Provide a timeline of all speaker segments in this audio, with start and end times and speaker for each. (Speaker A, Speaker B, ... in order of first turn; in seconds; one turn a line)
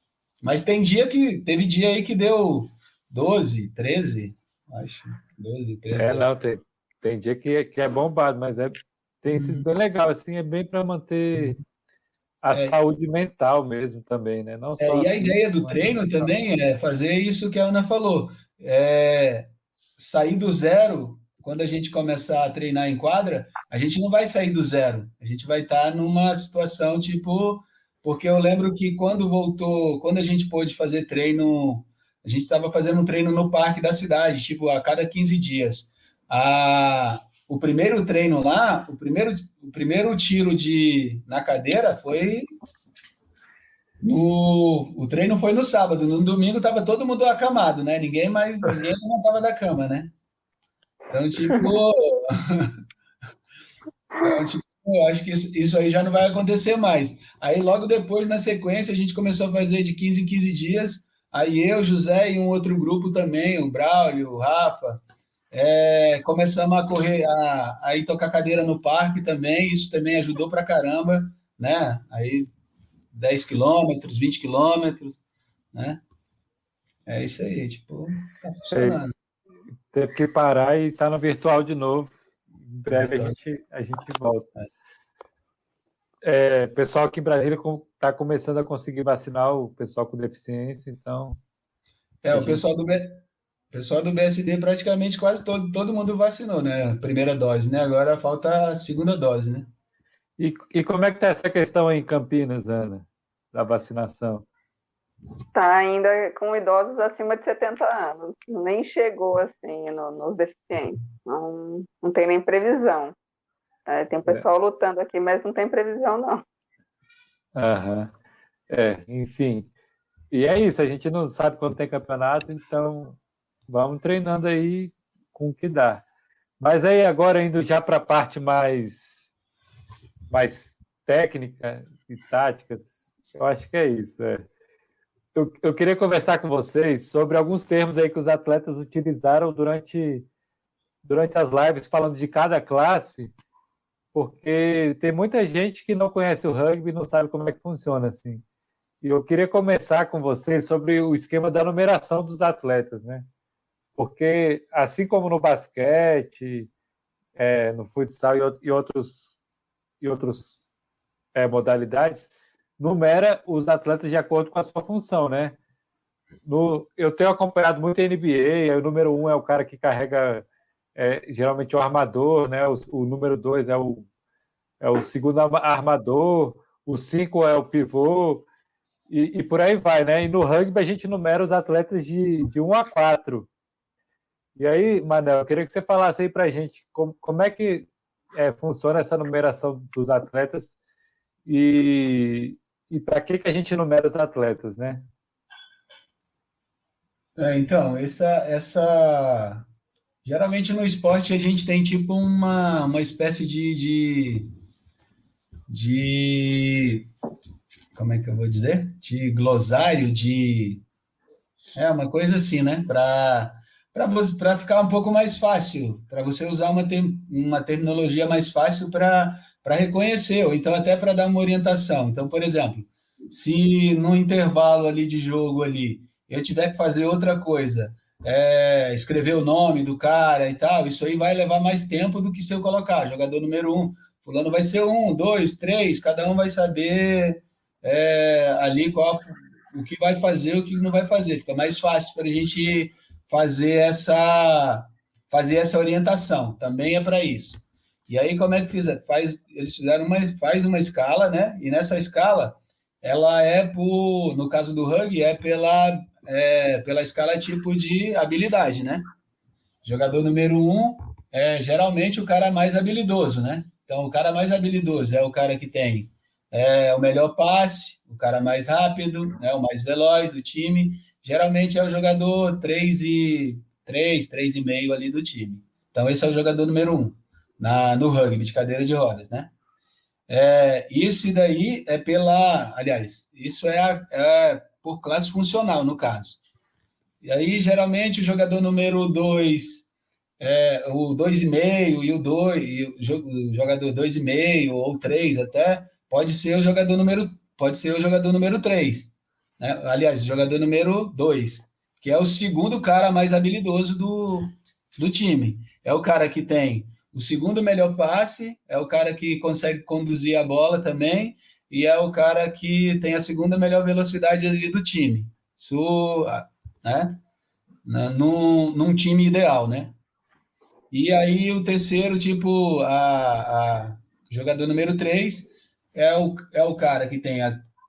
Speaker A: 0.4-6.3
Speaker B: 5.9-11.6
Speaker A: 9.4-9.7
Speaker B: 12.4-16.3
Speaker A: 12.5-12.8
Speaker A: 14.8-42.5
Speaker A: 44.0-50.1
Speaker A: 51.1-52.7
Speaker A: 54.2-72.5
Speaker A: 73.1-75.2
Speaker A: 75.7-76.0
Speaker A: 77.1-79.1
Speaker B: 78.7-79.0
Speaker B: 79.9-82.2
Speaker B: 82.7-84.5
Speaker A: 82.9-83.4
Speaker B: 86.2-91.4
Speaker A: 92.2-99.7
Speaker B: 92.3-92.6
Speaker B: 100.4-104.5
Speaker C: 105.5-113.2
Speaker C: 113.9-116.4
Speaker B: 117.5-118.1
Speaker B: 118.7-119.7
Speaker B: 120.3-126.0
Speaker B: 126.6-129.2
Speaker B: 130.3-134.5
Speaker B: 135.3-140.3
Speaker B: 141.0-143.3
Speaker B: 144.1-148.4
Speaker B: 149.0-153.3
Speaker B: 154.0-156.7
Speaker B: 157.4-159.3
Speaker B: 160.0-160.6
Speaker B: 161.3-162.3
Speaker B: 162.8-165.6
Speaker B: 166.5-174.1
Speaker B: 174.8-178.4
Speaker B: 179.1-183.5
Speaker B: 184.6-190.7
Speaker B: 191.5-195.1
Speaker A: 197.4-199.6
Speaker A: 200.2-204.5
Speaker A: 205.7-207.1
Speaker A: 207.9-210.8
Speaker A: 211.8-259.1
Speaker A: 259.8-279.5
Speaker A: 280.3-286.4
Speaker A: 287.2-289.9
Speaker A: 290.4-317.2
Speaker A: 317.9-320.0
Speaker A: 320.9-327.6